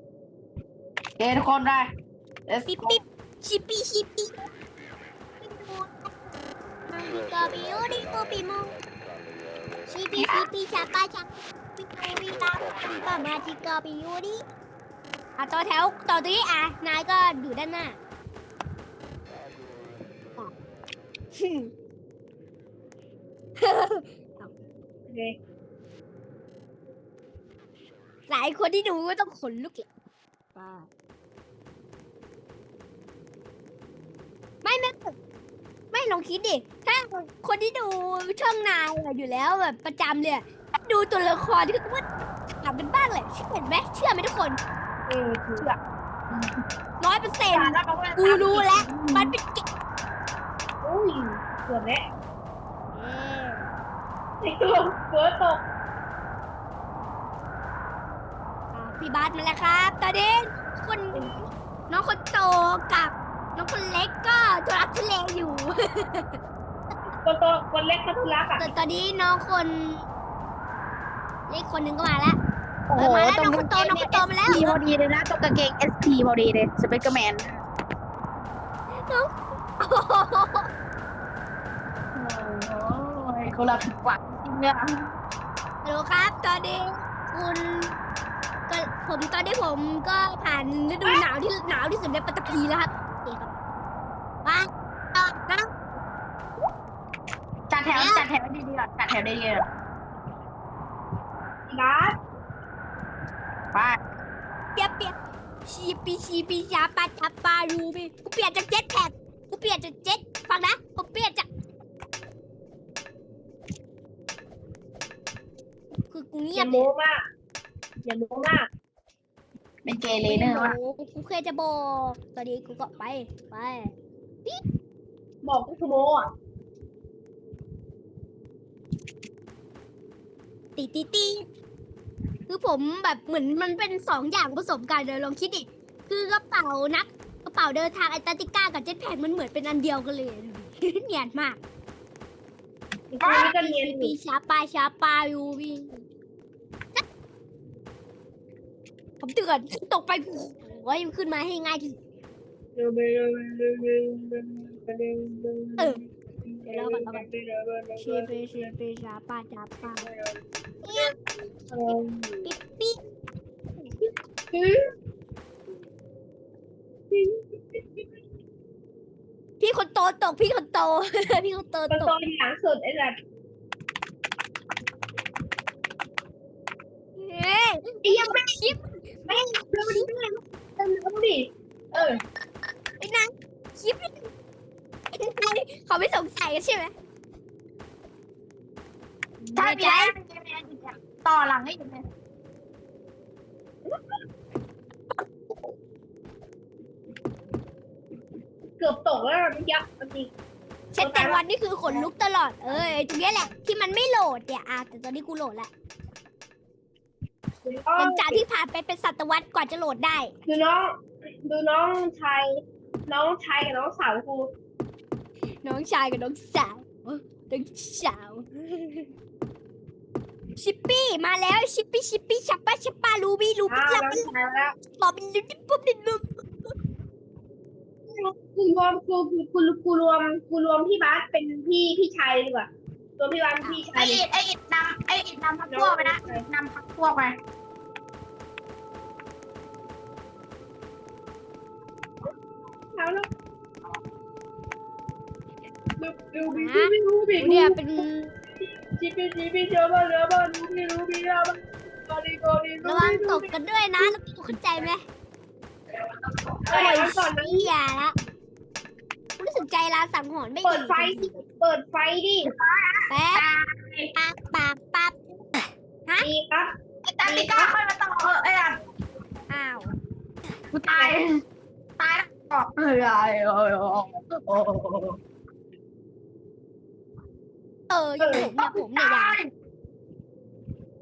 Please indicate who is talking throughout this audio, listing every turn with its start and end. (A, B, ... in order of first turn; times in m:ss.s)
0:01.2-0:01.9 A
0:02.5-0:03.0 A
0:02.7-0:04.4 B
0:05.4-0:05.9 B
0:06.9-0:08.8 B
0:09.9-0:14.4 B
0:10.2-0:10.5 A
0:15.4-0:18.0 B
0:21.3-0:21.7 B
0:23.6-0:24.5 B
0:25.1-0:25.4 C
0:28.3-0:29.9 B
0:30.6-0:30.9 B
0:34.6-0:35.1 B
0:35.9-0:42.0 B
0:42.6-0:44.6 B
0:45.1-0:45.7 C
0:47.0-0:49.7 B
0:47.5-0:49.3 A
0:50.8-0:52.1 C
0:52.9-0:53.7 B
0:54.4-0:55.6 C
0:58.7-1:06.4 B
1:07.2-1:08.7 C
1:08.6-1:10.0 B
1:11.5-1:12.4 B
1:12.9-1:17.6 A
1:13.0-1:14.8 B
1:18.9-1:20.7 B
1:22.1-1:24.9 A
1:25.8-1:28.0 B
1:28.7-1:33.5 B
1:35.3-1:35.7 B
1:37.7-1:39.7 A
1:37.9-1:38.3 B
1:41.7-1:42.2 C
1:43.7-1:44.0 A
1:44.8-1:45.1 B
1:45.6-1:51.5 B
1:56.1-1:56.9 B
1:56.6-1:57.2 C
1:58.0-1:58.7 C
1:59.9-2:00.8 A
2:00.3-2:03.9 B
2:05.4-2:06.3 C
2:10.8-2:11.4 B
2:12.5-2:21.6 B
2:23.1-2:24.2 C
2:23.2-2:26.0 B
2:29.2-2:32.0 B
2:32.8-2:38.7 C
2:36.7-2:37.3 B
2:38.0-2:40.1 B
2:39.9-2:40.4 C
2:40.8-2:41.2 B
2:41.7-2:42.5 C
2:42.4-2:43.0 B
2:44.5-2:44.8 C
2:47.1-2:47.8 C
2:49.6-2:52.1 B
2:51.9-2:53.2 C
2:57.2-2:58.8 B
2:58.0-2:58.6 C
2:59.3-3:02.2 C
2:59.8-3:00.1 B
3:03.0-3:04.2 B
3:05.1-3:06.9 B
3:09.5-3:12.0 A
3:09.6-3:10.1 B
3:18.8-3:20.3 C
3:20.9-3:25.7 B
3:21.0-3:22.1 C
3:27.6-3:28.4 C
3:28.0-3:30.3 B
3:30.5-3:32.5 C
3:33.1-3:34.5 C
3:35.6-3:39.1 B
3:40.6-3:44.3 B
3:43.7-3:44.8 C
3:45.0-3:46.3 B
3:48.1-3:54.2 C
3:53.9-3:57.4 A
3:55.7-3:56.5 C
4:02.9-4:03.3 C
4:06.0-4:08.0 C
4:06.5-4:08.4 B
4:09.0-4:14.1 C
4:12.8-4:15.0 B
4:16.7-4:17.7 C
4:16.7-4:18.2 B
4:19.4-4:21.4 B
4:20.6-4:22.5 C
4:22.5-4:24.1 A
4:23.1-4:23.5 B
4:24.2-4:26.3 B
4:26.2-4:26.7 C
4:27.1-4:28.8 A
4:27.2-4:27.7 C
4:29.5-4:29.9 B
4:30.7-4:31.4 A
4:31.0-4:31.2 C
4:32.0-4:35.2 A
4:37.9-4:39.4 B
4:38.2-4:38.5 C
4:38.6-4:39.5 A